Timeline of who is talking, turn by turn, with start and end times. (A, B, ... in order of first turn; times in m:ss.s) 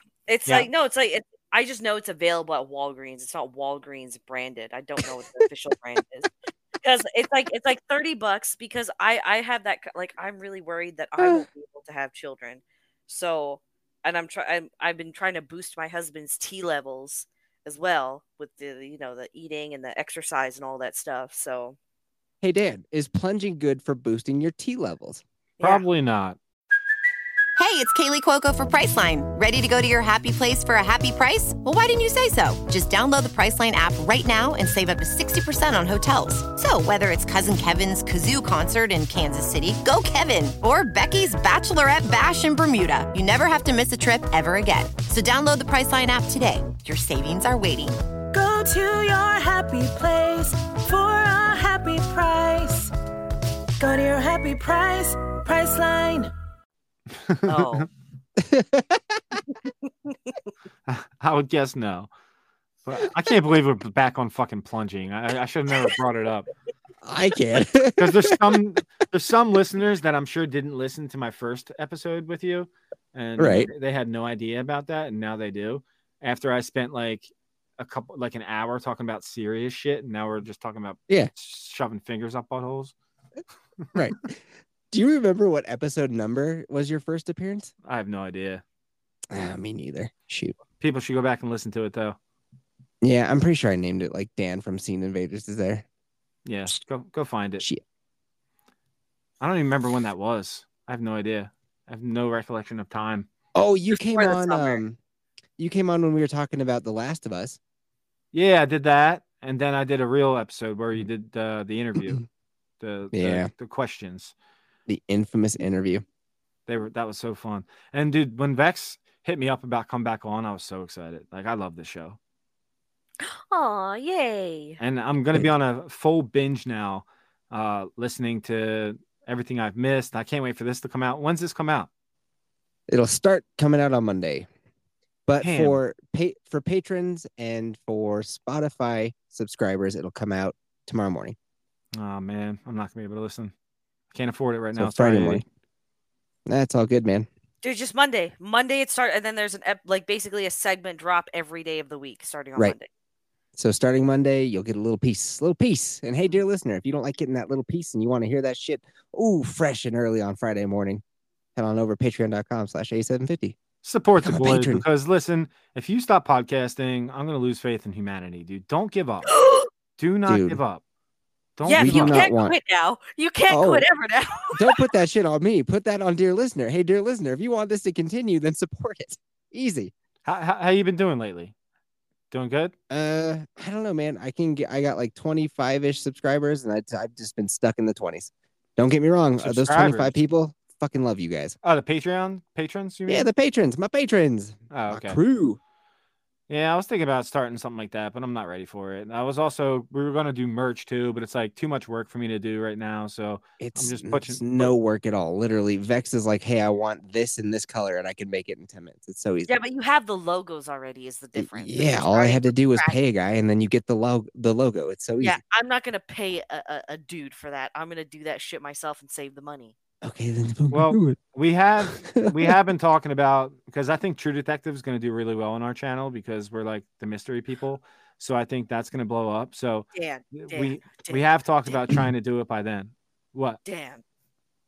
0:00.3-0:06.3 A
0:06.8-0:21.8 A
0:11.2-0:11.4 B
0:22.4-0:25.2 B
0:25.6-0:25.8 A
0:25.6-0:26.4 C
0:27.6-0:48.0 D
0:48.3-0:52.9 E
0:53.8-0:56.3 E
0:57.2-0:57.8 C
0:57.4-0:57.9 A
0:58.4-0:59.4 B
0:59.5-1:00.4 A
1:00.9-1:02.1 C
1:02.8-1:06.5 C
1:07.0-1:08.6 B
1:08.0-1:22.9 C
1:13.4-1:13.7 B
1:23.9-1:27.7 B
1:27.8-1:28.6 C
1:29.3-1:30.6 B
1:30.8-1:32.2 C
1:33.0-1:35.8 B
1:36.4-1:37.6 C
1:39.4-1:43.3 C
1:43.5-1:45.0 B
1:43.9-1:44.8 A
1:45.6-1:47.6 B
1:48.3-1:52.2 C
1:52.8-1:54.3 C
1:53.1-1:53.5 B
1:54.9-1:56.0 B
1:56.7-2:02.2 C
2:03.2-2:04.8 A
2:04.8-2:11.9 C
2:12.9-2:14.5 B
2:15.3-2:21.4 B
2:15.4-2:15.8 C
2:21.9-2:23.5 C
2:24.1-2:25.4 C
2:24.7-2:25.4 B
2:26.4-2:27.3 B
2:27.6-2:32.9 A
2:33.6-2:41.0 B
2:41.6-2:43.6 B
2:43.8-2:49.3 C
2:44.2-2:44.8 B
2:49.3-2:49.7 A
2:50.0-2:50.8 C
2:50.3-2:50.6 B
2:51.6-2:52.2 C
2:51.6-2:54.9 A
2:51.7-2:52.6 B
2:53.5-2:53.9 B
2:54.5-2:59.9 B
3:00.2-3:01.5 C
3:02.3-3:02.7 C
3:02.9-3:11.6 B
3:09.4-3:10.1 C
3:11.6-3:13.3 C
3:13.1-3:15.6 B
3:14.7-3:15.2 C
3:16.5-3:24.7 C
3:23.6-3:29.5 B
3:29.4-3:33.0 A
3:31.3-3:35.4 B
3:35.2-3:39.7 A
3:40.0-3:41.2 B
3:40.7-3:53.6 C
3:41.8-3:42.5 B
3:49.9-3:51.8 A
3:53.6-3:54.0 A